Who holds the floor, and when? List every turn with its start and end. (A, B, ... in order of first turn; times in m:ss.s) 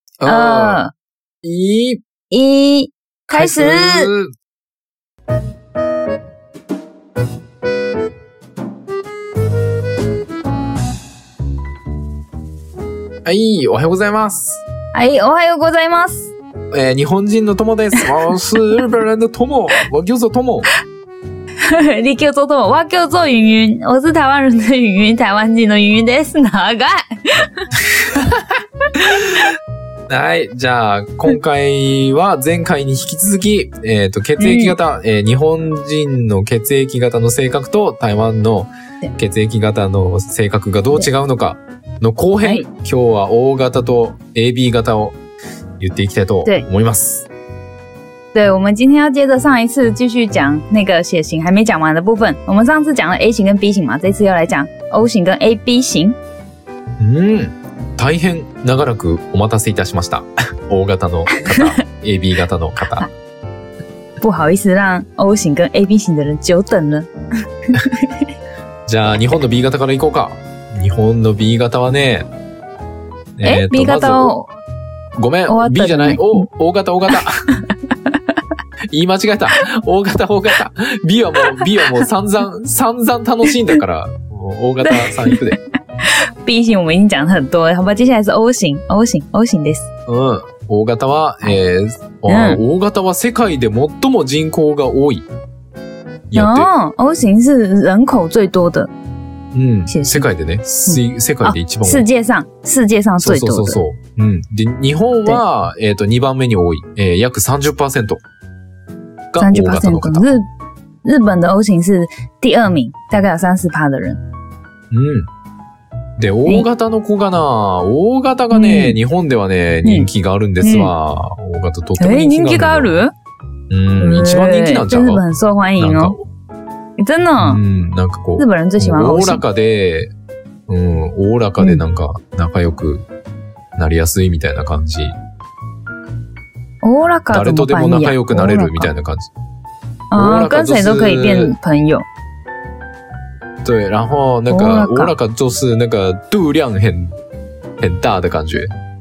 0:00.2-0:00.8 A
0:00.2-0:00.9 B
0:01.4-0:02.0 A
0:02.3-0:04.1 B
0:03.3-0:04.3 A
0:13.2-0:14.6 A
0:14.9-0:16.3 B
0:16.7-0:20.7 A
0:21.6-0:27.7 B
0:27.8-0:29.6 A
0:30.1-0:45.2 A
0:34.4-0:34.7 B
0:42.4-0:42.7 B
0:45.8-0:47.3 A
0:48.3-0:56.2 B
0:57.0-1:03.1 A
1:04.2-1:07.1 B
1:07.7-1:08.2 B
1:08.8-1:12.3 A
1:13.4-1:14.3 A
1:13.4-1:14.5 B
1:15.2-1:17.5 A
1:15.5-1:16.5 B
1:18.9-1:25.6 A
1:21.4-1:21.8 B
1:24.8-1:29.9 B
1:30.1-1:35.3 A
1:32.3-1:32.6 B
1:36.3-1:36.7 A
1:36.4-1:38.9 B
1:39.5-1:42.0 A
1:39.9-1:40.3 B
1:40.9-1:43.8 B
1:43.2-1:48.2 A
1:49.3-1:50.3 A
1:49.4-1:50.4 B
1:51.0-1:54.2 B
1:54.9-1:55.3 A
1:56.2-2:02.9 A
1:58.5-1:59.0 B
2:00.6-2:00.9 B
2:02.0-2:03.1 B
2:03.7-2:05.2 A
2:04.0-2:06.2 B
2:05.8-2:06.2 A
2:07.0-2:07.6 B
2:07.4-2:10.1 A
2:08.4-2:09.4 B
2:10.7-2:13.0 A
2:13.8-2:15.1 A
2:16.8-2:18.9 B
2:17.3-2:19.3 A
2:20.1-2:22.0 B
2:20.1-2:21.6 A
2:23.6-2:27.1 A
2:24.5-2:25.1 B
2:27.8-2:28.7 A